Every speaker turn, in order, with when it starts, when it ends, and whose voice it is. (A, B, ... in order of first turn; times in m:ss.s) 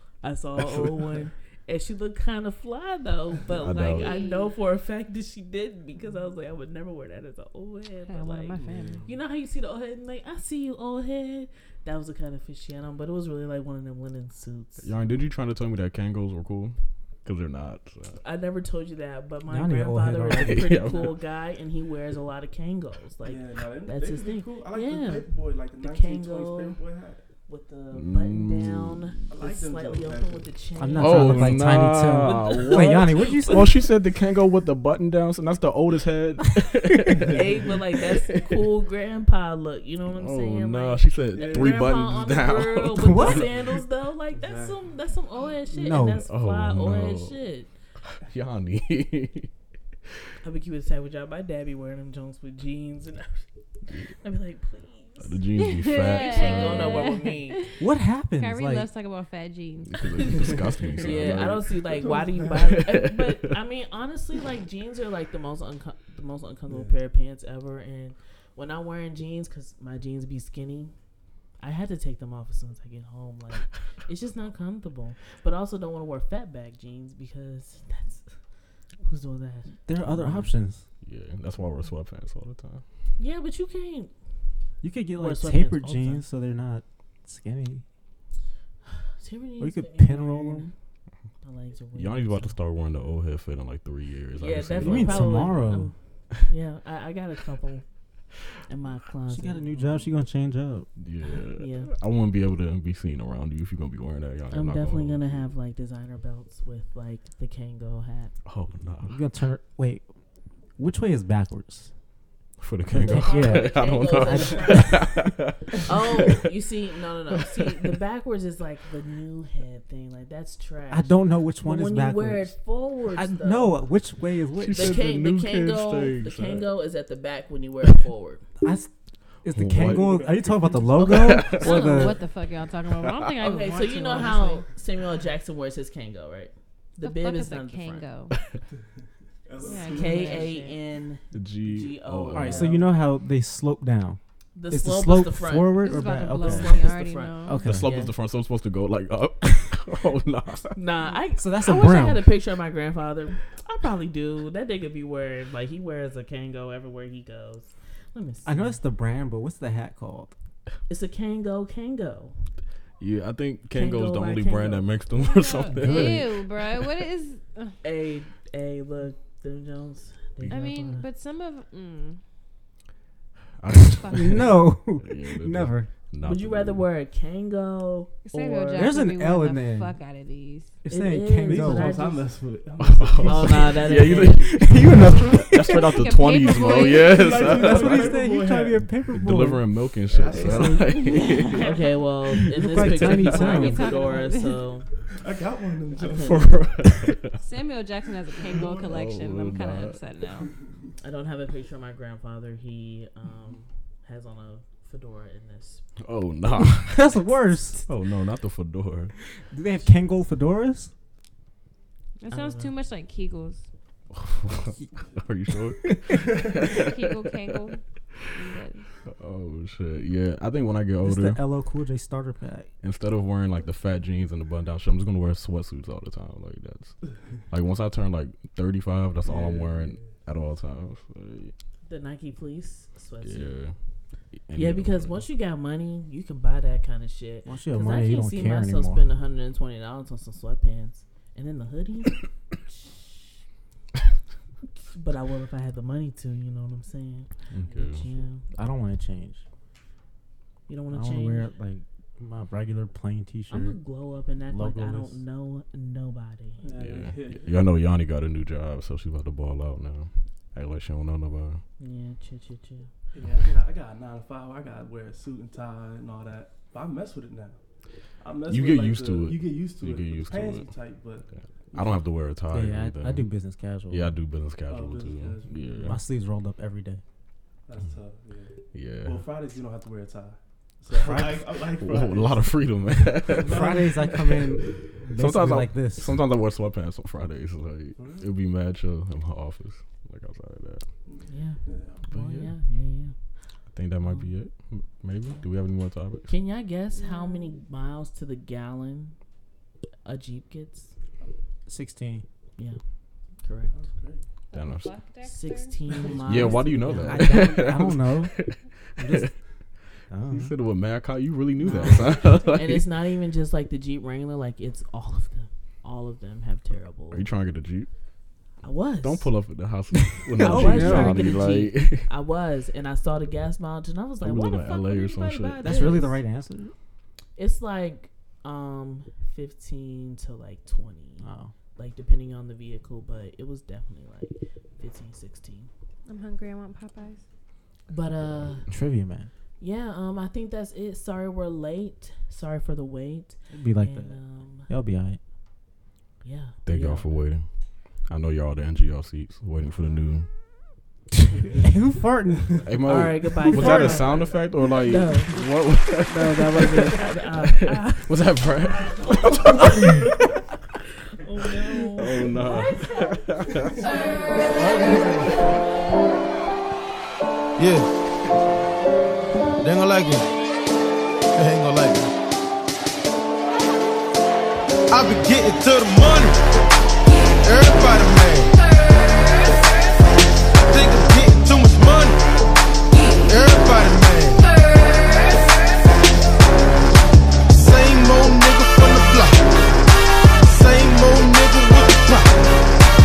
0:00.2-0:15.1 A
0:00.6-0:00.9 B
0:03.6-0:04.2 B
0:03.6-0:04.5 C
0:08.1-0:09.1 C
0:08.6-0:09.1 D
0:14.8-0:18.2 B
0:18.2-0:26.8 A
0:19.5-0:20.8 E
0:20.3-0:21.2 B
0:23.2-0:27.2 D
0:27.5-0:33.8 A
0:27.9-0:29.2 B
0:29.3-0:30.6 D
0:30.8-0:33.7 E
0:31.0-0:38.6 B
0:37.2-0:47.7 A
0:40.1-0:43.5 B
0:41.3-0:42.1 D
0:43.0-0:43.5 E
0:44.3-0:45.0 D
0:45.7-0:46.3 E
0:46.2-0:47.4 B
0:48.1-0:49.5 B
0:50.4-0:55.4 A
0:55.2-0:57.2 B
0:55.6-0:57.8 C
0:56.0-0:57.8 A
0:57.8-0:58.9 E
0:58.4-1:00.5 C
0:59.9-1:03.4 B
1:00.2-1:10.9 A
1:01.1-1:02.8 D
1:06.7-1:07.0 D
1:11.6-1:18.4 A
1:19.0-1:20.5 A
1:19.9-1:20.8 E
1:21.0-1:22.8 B
1:23.2-1:24.1 A
1:24.8-1:27.8 E
1:25.1-1:26.2 A
1:29.0-1:30.7 A
1:29.6-1:30.7 E
1:31.4-1:32.6 A
1:32.0-1:35.7 B
1:34.4-1:37.8 A
1:34.8-1:35.9 E
1:38.7-1:40.1 A
1:39.3-1:40.9 E
1:41.0-1:45.4 B
1:41.5-1:41.9 A
1:44.5-1:48.3 A
1:48.5-1:49.2 B
1:49.1-1:50.0 E
1:50.8-1:51.9 E
1:52.6-1:56.5 B
1:52.9-1:55.1 E
1:52.9-1:55.3 A
1:55.8-2:03.9 A
1:57.3-1:58.0 B
2:00.9-2:02.6 E
2:03.1-2:05.0 E
2:04.6-2:06.7 B
2:04.7-2:08.5 A
2:08.6-2:12.2 E
2:09.5-2:10.3 B
2:09.8-2:11.2 D
2:11.0-2:12.2 A
2:11.0-2:12.0 B
2:11.6-2:14.7 C
2:13.4-2:18.1 A
2:17.0-2:18.4 C
2:18.3-2:18.6 B
2:19.4-2:20.5 D
2:19.6-2:20.8 C
2:19.6-2:23.0 A
2:21.3-2:22.7 B
2:22.3-2:26.8 E
2:24.6-2:28.1 A
2:25.8-2:27.7 C
2:27.4-2:27.9 E
2:27.6-2:30.8 B
2:30.8-2:38.8 A
2:31.4-2:32.2 E
2:38.4-2:40.3 E
2:40.9-2:42.5 A
2:43.0-2:46.8 B
2:43.7-2:45.5 A
2:45.7-2:47.8 C
2:45.8-2:46.2 E
2:47.8-2:51.0 A
2:50.5-2:52.2 C
2:53.6-2:56.8 B
2:54.1-2:55.9 E
2:56.2-2:59.0 A
2:58.3-3:00.8 C
2:58.8-3:00.0 E
3:00.9-3:02.0 E
3:00.9-3:02.4 A
3:01.4-3:04.2 D
3:02.8-3:08.4 B
3:03.2-3:04.9 A
3:04.3-3:06.1 E
3:05.5-3:07.3 C
3:06.7-3:08.8 D
3:07.3-3:09.7 E
3:09.0-3:11.8 B
3:10.1-3:11.0 D
3:10.4-3:10.9 E
3:10.9-3:11.8 C
3:11.3-3:14.9 A
3:12.4-3:13.9 E
3:13.1-3:14.7 C
3:15.1-3:16.5 D
3:16.0-3:16.5 A
3:16.2-3:17.4 B
3:17.4-3:20.5 C
3:18.6-3:18.8 D
3:18.7-3:20.0 B
3:21.0-3:25.9 A
3:26.0-3:27.0 B
3:26.6-3:27.8 E
3:27.9-3:29.2 B
3:29.3-3:30.9 E
3:32.2-3:33.7 C
3:32.3-3:32.7 A
3:34.1-3:37.7 B
3:36.6-3:38.9 C
3:39.0-3:41.4 B
3:41.0-3:42.7 E
3:42.8-3:51.5 B
3:49.2-3:50.0 D
3:51.9-3:53.6 A
3:53.2-3:53.8 B
3:54.4-3:55.2 B
3:54.6-4:02.2 A
3:57.5-3:59.1 E
4:04.8-4:08.5 A
4:07.5-4:08.1 B
4:08.5-4:09.4 E
4:10.7-4:11.5 A
4:10.9-4:13.8 E
4:13.5-4:16.7 A
4:14.5-4:15.2 E
4:16.6-4:17.6 D
4:16.7-4:21.6 B
4:21.8-4:22.9 A
4:23.1-4:27.6 D
4:28.1-4:32.2 D
4:28.5-4:30.7 B
4:31.7-4:33.3 B
4:32.5-4:34.2 E
4:33.9-4:36.0 B
4:34.7-4:36.0 D
4:35.8-4:37.0 E
4:37.7-4:42.6 D
4:38.7-4:39.2 B
4:40.9-4:41.5 E
4:41.8-4:44.4 B
4:43.3-4:44.5 D
4:43.4-4:46.2 E
4:45.0-4:50.9 B
4:48.0-4:48.2 D
4:51.1-4:52.0 D
4:51.3-4:53.2 A
4:52.1-4:52.5 E
4:53.7-4:56.3 B
4:56.3-4:59.2 A
4:57.0-4:57.6 C
5:00.0-5:00.9 A
5:01.7-5:02.2 E
5:03.4-5:03.8 A
5:03.7-5:04.2 D
5:04.5-5:05.9 C
5:04.5-5:05.0 B
5:05.2-5:07.7 A
5:05.9-5:06.6 D
5:06.2-5:09.3 B
5:06.9-5:08.4 E
5:09.0-5:09.3 E
5:10.1-5:10.5 E
5:10.3-5:12.9 B
5:11.6-5:17.3 A
5:11.8-5:12.2 E
5:17.1-5:17.9 B
5:18.6-5:19.3 A
5:19.0-5:22.1 B
5:20.4-5:21.4 E
5:20.4-5:24.8 A
5:24.2-5:26.0 B
5:24.4-5:26.1 C
5:25.6-5:26.1 A
5:25.6-5:26.7 E
5:27.4-5:35.7 A
5:31.2-5:31.5 E
5:36.1-5:37.2 C
5:37.9-5:38.7 A
5:38.7-5:39.3 E
5:39.6-5:44.7 A
5:43.5-5:45.2 E
5:46.2-5:47.3 A
5:46.6-5:47.5 B
5:48.1-5:50.3 B
5:51.5-5:52.7 E
5:52.6-6:00.0 B
5:52.9-5:55.5 A
5:53.5-5:54.0 E
5:56.0-5:58.2 A
5:59.6-6:00.2 E
6:01.2-6:02.5 A
6:01.9-6:04.0 B
6:03.7-6:04.6 D
6:03.8-6:04.5 C
6:04.5-6:05.4 E
6:07.6-6:07.9 F
6:09.6-6:10.3 F
6:11.3-6:12.1 F
6:14.9-6:16.4 F
6:17.4-6:18.6 F
6:20.6-6:22.2 F
6:23.3-6:24.5 F
6:27.5-6:29.5 F
6:30.4-6:32.6 F